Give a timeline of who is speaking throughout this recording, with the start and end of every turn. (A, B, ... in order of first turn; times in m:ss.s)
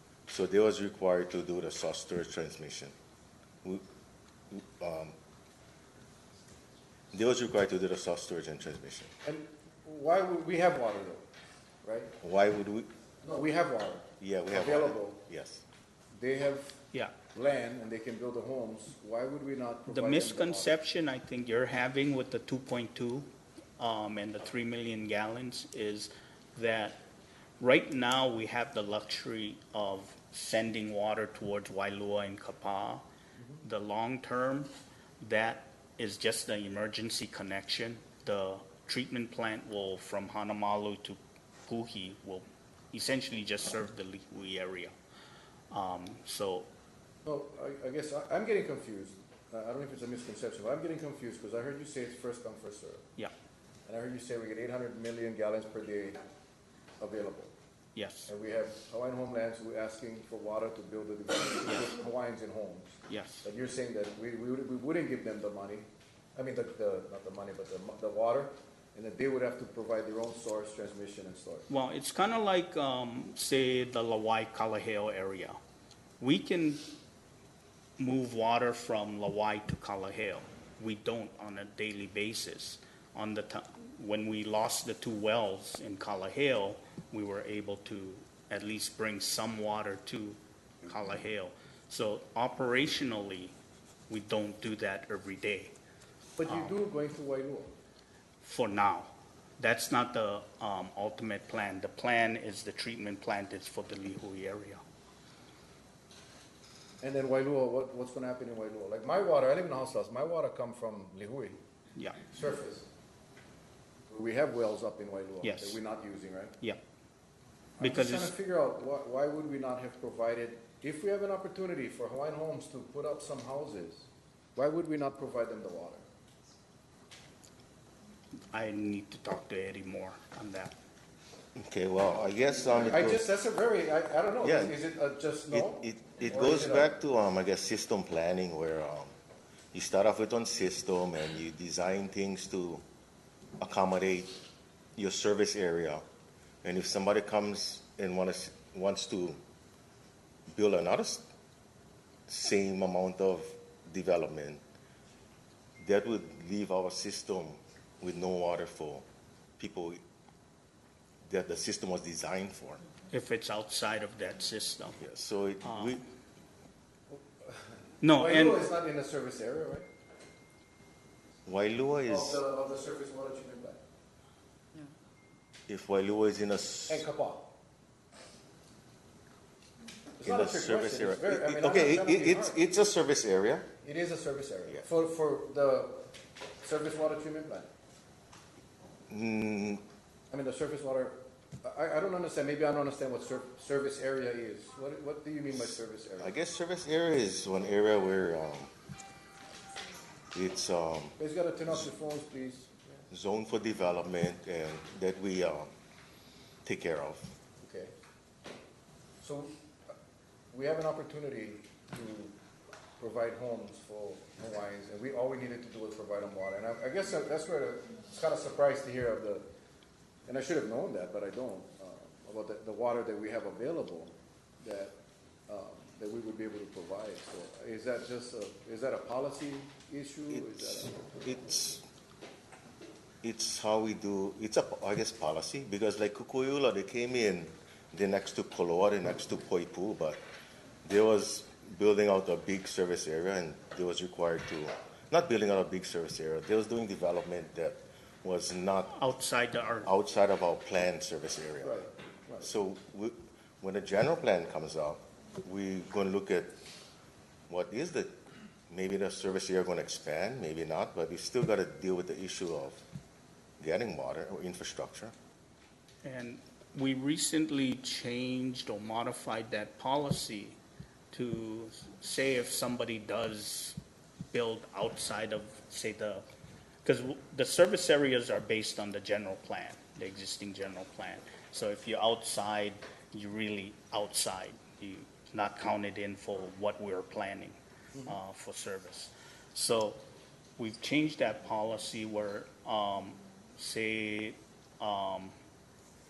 0:00.3-0:02.9 A
0:04.5-0:05.1 A
0:07.1-0:09.1 A
0:09.2-0:11.2 B
0:11.8-0:12.1 B
0:12.2-0:12.9 A
0:13.2-0:15.2 B
0:14.2-0:15.6 A
0:16.1-0:16.8 B
0:17.3-0:20.7 B
0:19.9-0:27.0 C
0:27.6-0:33.0 C
0:33.6-0:44.9 C
0:45.7-0:46.7 C
0:47.2-0:53.0 B
0:53.8-0:56.2 B
0:57.0-0:57.5 B
0:58.0-0:58.3 C
0:58.3-1:11.7 B
1:03.1-1:03.4 C
1:11.7-1:15.6 C
1:16.2-1:16.8 C
1:18.0-1:33.6 C
1:34.1-1:35.7 C
1:36.4-1:37.7 B
1:36.5-1:36.7 C
1:38.4-1:44.8 C
1:47.0-1:51.6 B
1:52.0-1:52.2 C
1:52.3-1:52.9 B
1:54.1-1:56.6 B
1:55.4-1:55.8 C
1:57.8-2:06.0 B
1:57.8-1:58.3 C
2:08.5-2:10.7 C
2:11.6-2:13.2 A
2:12.7-2:16.9 B
2:14.4-2:14.8 A
2:15.5-2:19.1 A
2:19.7-2:22.8 A
2:23.6-2:24.3 A
2:25.0-2:26.0 A
2:26.6-2:29.4 A
2:30.5-2:31.3 A
2:32.3-2:34.6 A
2:35.8-2:39.0 A
2:39.6-2:40.0 A
2:41.2-2:42.8 A
2:43.1-2:45.0 C
2:45.0-2:46.0 A
2:45.7-2:46.0 C
2:47.1-2:49.8 B
2:48.0-2:48.7 C
2:51.4-2:52.4 A
2:52.1-2:53.8 B
2:55.7-2:57.1 A
2:56.9-2:57.5 B
3:00.2-3:02.6 B
3:00.2-3:03.7 A
3:03.8-3:06.0 B
3:06.6-3:07.7 B
3:09.1-3:09.8 A
3:10.3-3:16.3 B
3:16.2-3:18.7 A
3:20.3-3:21.2 A
3:21.2-3:22.7 B
3:23.1-3:25.7 A
3:26.6-3:27.3 A
3:27.6-3:27.9 B
3:29.2-3:29.6 B
3:30.5-3:32.4 B
3:33.0-3:39.4 B
3:40.3-3:45.0 B
3:45.5-3:50.9 B
3:50.3-3:51.8 A
3:53.2-4:00.2 A
4:00.8-4:09.0 A
4:08.9-4:09.9 C
4:09.8-4:11.8 A
4:11.6-4:12.5 B
4:12.4-4:16.6 A
4:17.5-4:18.2 A
4:18.7-4:22.8 A
4:23.6-4:25.1 A
4:26.0-4:30.6 C
4:31.1-4:33.8 C
4:34.3-4:36.2 C
4:36.8-4:50.0 C
4:50.6-4:55.3 C